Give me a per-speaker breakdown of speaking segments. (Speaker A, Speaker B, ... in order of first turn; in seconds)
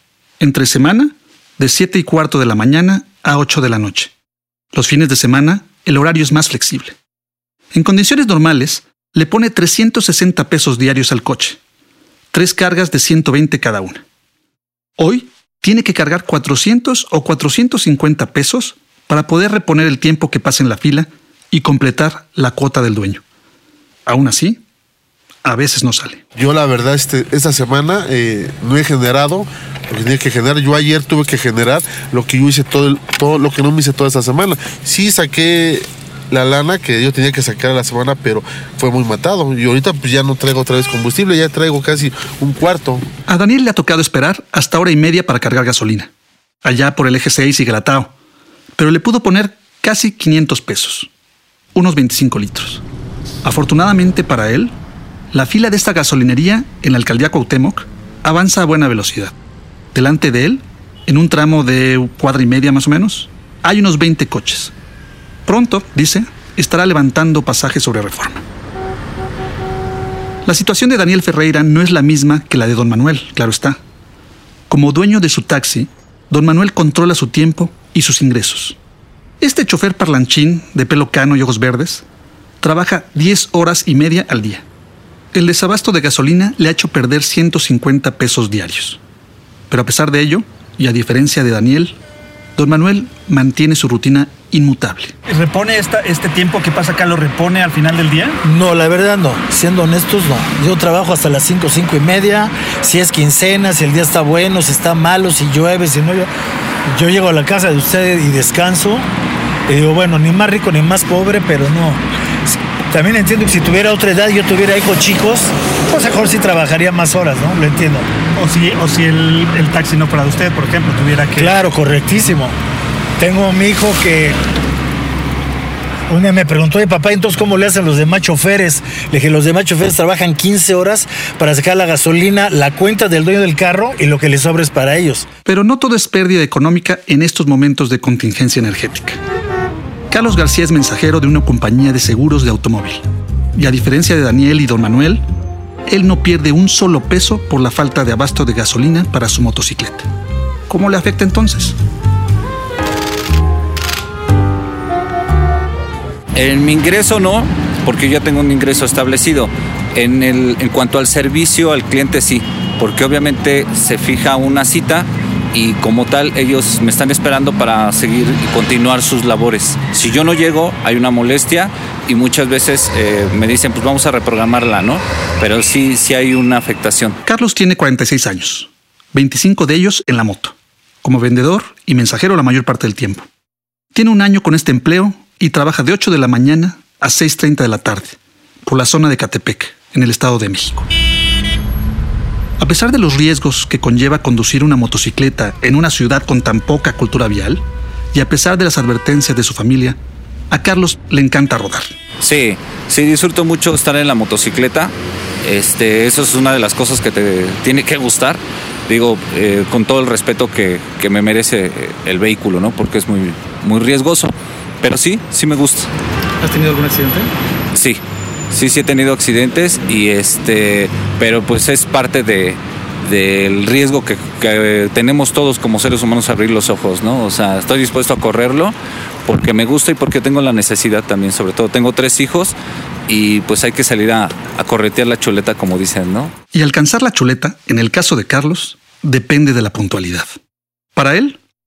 Speaker A: 0.4-4.1, 4.7-7.0, 7.7-11.6, 12.3-14.0, 15.0-23.2, 24.1-24.6, 25.4-26.2, 43.3-46.1, 46.6-48.1, 48.8-51.1, 51.7-52.8, 53.4-54.8, 55.3-59.3, 59.9-64.7, 65.5-68.4, 70.5-73.8, 74.7-78.8, 79.4-82.0, 82.6-84.7, 85.3-89.0, 89.7-92.0, 92.5-95.2, 96.4-97.2, 118.5-121.2, 135.4-139.2, 140.1-145.2, 145.9-150.1, 150.7-151.8, 177.2-183.3, 183.9-190.9, 192.6-197.6, 198.1-200.0, 200.5-201.9, 216.5-217.0, 236.5-240.3, 240.9-241.4
Speaker B: 26.4-43.0
Speaker C: 95.3-98.3, 118.4-121.4, 216.5-217.2
Speaker D: 98.4-106.3, 107.0-109.0, 109.7-118.0, 121.3-122.5, 123.2-124.4, 126.1-135.3
Speaker E: 156.3-177.2, 202.2-204.9, 205.4-215.9, 217.7-232.6, 233.1-236.3